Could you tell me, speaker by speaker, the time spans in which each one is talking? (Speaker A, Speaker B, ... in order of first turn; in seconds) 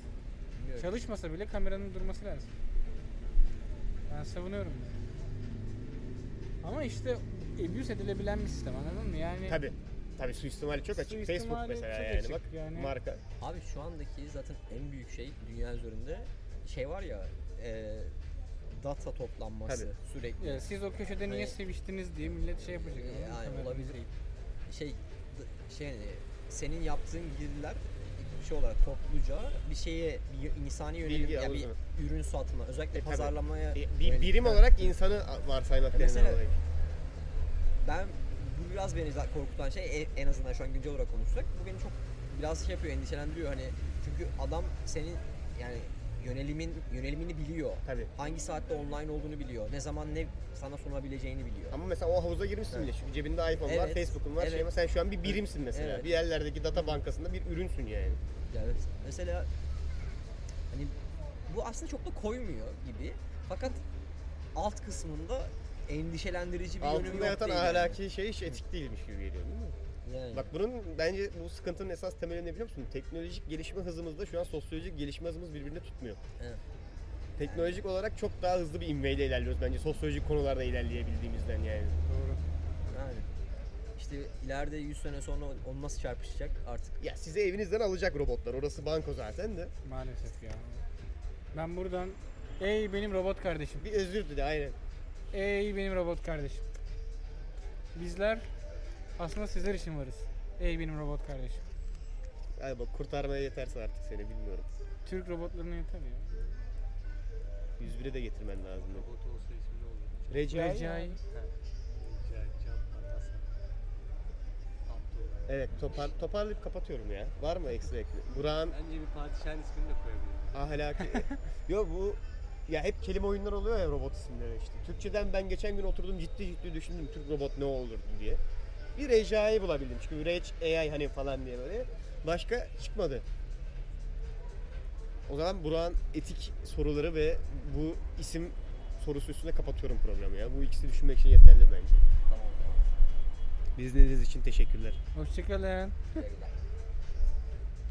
Speaker A: 0.5-0.9, 13.4-18.1, 18.7-20.6, 21.2-21.6, 22.3-24.1, 24.7-34.9, 35.9-36.4, 37.8-51.8, 53.6-54.7, 55.2-56.2, 58.5-59.5, 60.7-61.0, 61.5-63.8, 64.5-68.0, 70.0-70.5, 77.4-77.8, 82.9-83.3, 84.0-87.0, 142.3-142.8, 146.1-146.6
Speaker B: 0.8-2.5, 4.1-4.9, 6.6-9.6, 11.1-12.9, 20.4-24.1, 82.0-82.4, 89.8-90.8, 91.5-93.8, 95.3-96.6, 97.9-98.4, 99.2-101.6, 105.0-106.6, 110.5-111.2, 145.1-146.2
Speaker C: 9.5-13.2, 31.0-31.8, 32.9-36.5, 47.8-48.1, 51.7-58.2, 66.8-69.7, 70.3-76.2, 77.4-81.9, 87.0-89.7, 93.8-94.8, 102.6-104.7, 107.8-109.0, 110.3-111.0, 115.5-118.8, 120.5-128.4, 128.9-133.2, 135.3-142.0, 143.8-145.0
Speaker D: 108.8-113.5, 114.9-116.0, 118.4-120.8